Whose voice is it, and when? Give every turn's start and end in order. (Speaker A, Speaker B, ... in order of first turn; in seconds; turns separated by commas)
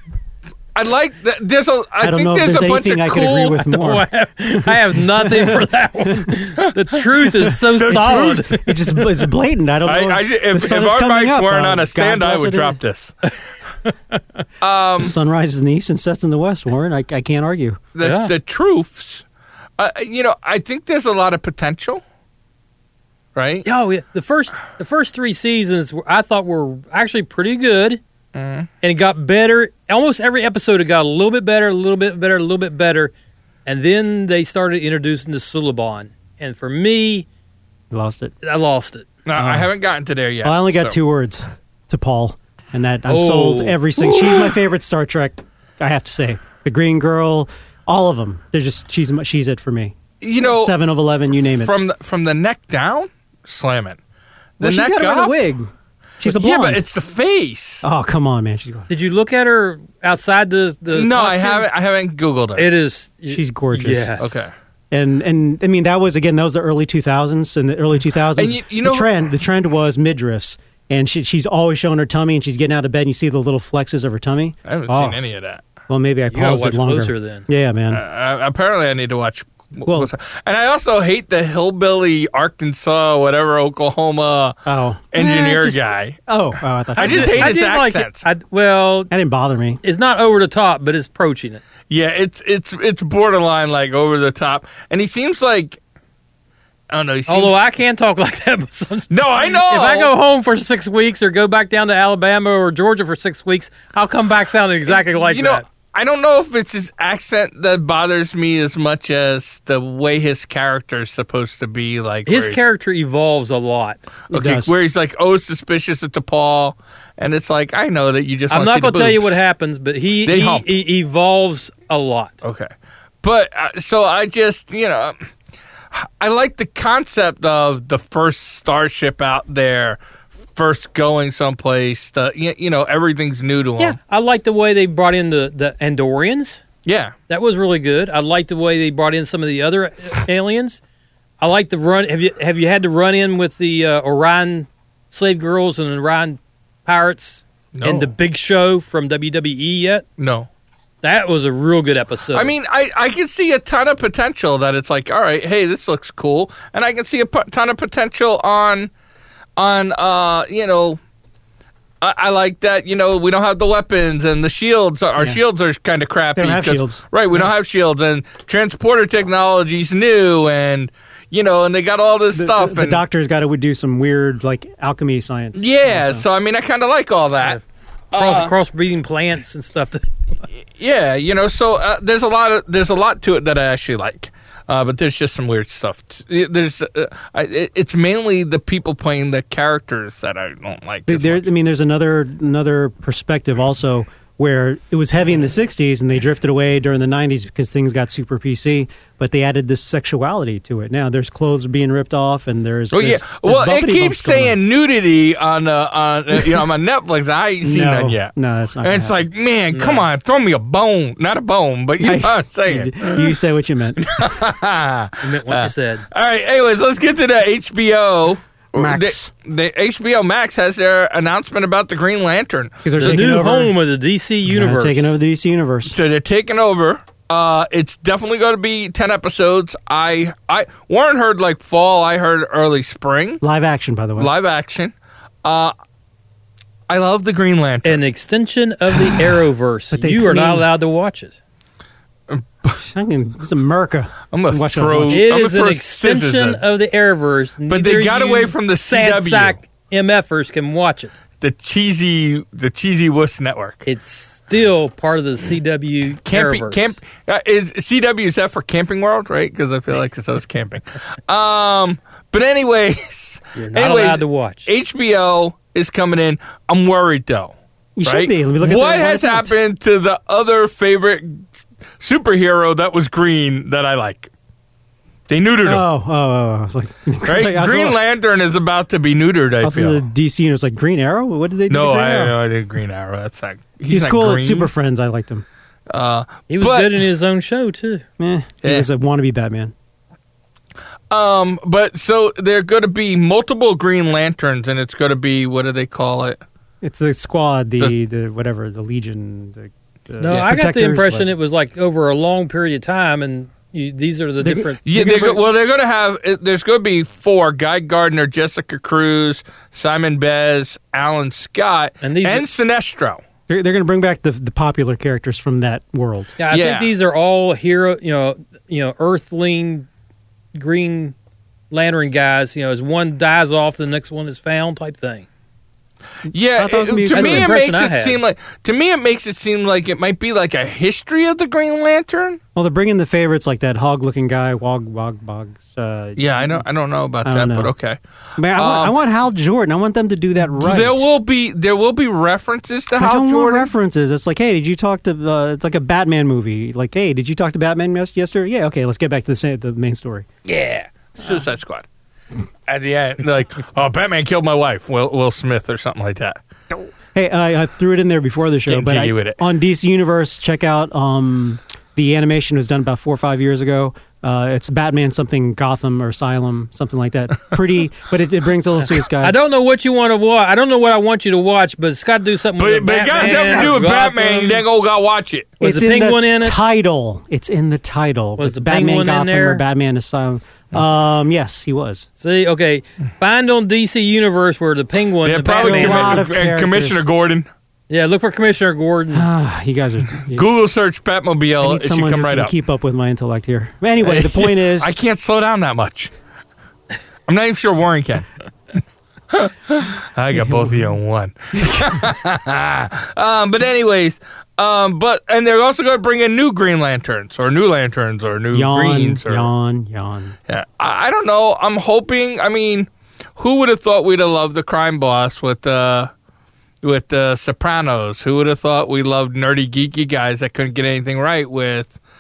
Speaker A: 0.8-3.6, Speaker B: 2.0-4.0, Speaker C: 3.7-9.1, Speaker B: 4.6-5.7, Speaker A: 7.4-8.5, Speaker B: 7.5-12.8, Speaker A: 9.9-13.1, Speaker C: 13.9-14.2, Speaker A: 14.6-15.2, Speaker B: 15.0-17.8, Speaker A: 17.9-19.2, Speaker C: 18.0-18.3, Speaker A: 19.8-22.0, Speaker A: 23.4-23.6, Speaker C: 23.6-28.0, Speaker A: 28.4-28.7, Speaker C: 28.8-33.1, Speaker C: 33.7-37.3, Speaker B: 37.9-38.4, Speaker C: 38.4-39.1, Speaker A: 39.3-41.0, Speaker B: 39.4-39.7, Speaker B: 40.4-51.7, Speaker C: 43.1-44.5, Speaker A: 50.2-50.7, Speaker A: 51.5-54.0, Speaker A: 54.6-55.4, Speaker B: 54.6-55.7, Speaker B: 56.2-56.8, Speaker A: 56.2-57.9, Speaker B: 57.8-58.9, Speaker C: 58.9-61.7, Speaker A: 60.9-62.7, Speaker C: 62.5-64.5, Speaker B: 63.3-64.2, Speaker A: 64.2-64.5, Speaker B: 64.9-75.2, Speaker A: 68.4-69.1, Speaker A: 74.7-75.7, Speaker B: 75.9-78.0, Speaker C: 76.3-77.5, Speaker A: 77.9-84.5, Speaker B: 79.9-80.1, Speaker B: 84.7-87.6, Speaker A: 85.1-86.2, Speaker A: 87.0-88.2, Speaker C: 87.0-89.1, Speaker B: 89.1-89.8, Speaker C: 89.8-91.6, Speaker A: 91.9-95.8, Speaker A: 96.9-97.5, Speaker C: 97.3-105.6, Speaker A: 99.1-100.1, Speaker A: 104.9-112.6, Speaker C: 112.3-114.1, Speaker B: 114.3-114.7, Speaker A: 114.3-119.3, Speaker C: 118.5-122.4, Speaker A: 120.2-120.7, Speaker A: 122.4-122.7, Speaker A: 123.2-125.2, Speaker A: 125.9-130.0, Speaker A: 130.6-134.0, Speaker C: 133.8-136.6, Speaker A: 136.8-137.1, Speaker C: 137.3-140.8, Speaker C: 141.4-150.1, Speaker A: 147.7-148.1, Speaker A: 150.2-150.5, Speaker C: 151.0-152.5, Speaker A: 152.3-158.9, Speaker A: 159.6-161.0, Speaker A: 162.0-173.0, Speaker B: 166.4-167.5, Speaker B: 172.3-176.2, Speaker A: 175.6-177.6, Speaker A: 178.1-178.5, Speaker C: 178.1-180.4, Speaker A: 180.8-191.4, Speaker B: 191.1-204.6, Speaker A: 202.9-213.3, Speaker B: 207.6-209.2, Speaker C: 209.7-210.1, Speaker B: 212.0-214.0, Speaker A: 214.0-223.2, Speaker C: 215.2-216.1, Speaker B: 218.8-219.3, Speaker B: 222.8-223.7, Speaker C: 223.0-225.1, Speaker B: 224.4-226.0, Speaker A: 225.9-233.4, Speaker B: 233.4-234.3, Speaker A: 234.2-235.7, Speaker A: 236.9-238.0, Speaker C: 237.8-241.4, Speaker B: 239.9-240.7, Speaker A: 242.3-242.8, Speaker B: 242.8-245.2, Speaker A: 244.3-246.6, Speaker C: 245.1-251.2, Speaker A: 247.7-249.6, Speaker A: 251.4-253.9, Speaker C: 253.8-257.0, Speaker A: 256.2-267.5, Speaker C: 263.6-264.7, Speaker B: 268.0-269.5, Speaker A: 268.1-274.3, Speaker A: 275.3-275.8, Speaker B: 275.6-278.0, Speaker A: 277.2-280.0, Speaker B: 279.6-282.4, Speaker A: 281.7-284.7, Speaker B: 283.9-285.4, Speaker A: 285.9-287.0, Speaker C: 286.5-288.1, Speaker B: 288.2-289.7, Speaker A: 288.6-288.9, Speaker A: 291.1-296.4, Speaker B: 296.8-301.3, Speaker C: 300.2-304.8, Speaker B: 304.4-305.4, Speaker A: 304.9-313.2, Speaker C: 312.0-312.4, Speaker B: 313.5-316.3, Speaker C: 316.4-319.9, Speaker A: 316.5-316.9, Speaker C: 320.5-321.1, Speaker C: 321.7-325.3, Speaker A: 326.3-332.4, Speaker B: 326.6-327.5, Speaker C: 327.1-328.2, Speaker B: 332.6-336.6, Speaker A: 336.2-338.0, Speaker B: 337.2-337.7, Speaker B: 338.4-341.1, Speaker A: 338.6-338.9, Speaker A: 340.6-343.7, Speaker B: 343.0-350.3, Speaker A: 350.4-351.9, Speaker A: 352.7-356.4, Speaker B: 357.1-369.4, Speaker A: 358.7-359.4, Speaker C: 369.2-374.6, Speaker A: 372.6-375.6, Speaker B: 373.1-373.9, Speaker C: 375.6-376.6, Speaker B: 375.6-382.1, Speaker C: 378.4-379.6, Speaker C: 382.2-386.2, Speaker A: 385.2-387.5, Speaker B: 385.6-387.0, Speaker C: 387.9-389.3, Speaker B: 389.1-390.5, Speaker A: 390.3-392.5, Speaker B: 391.6-394.9, Speaker A: 394.0-396.1, Speaker A: 397.3-398.3, Speaker A: 399.3-409.5, Speaker B: 400.3-400.9, Speaker B: 401.6-402.0, Speaker B: 408.5-410.4, Speaker A: 410.5-416.1, Speaker A: 416.8-422.0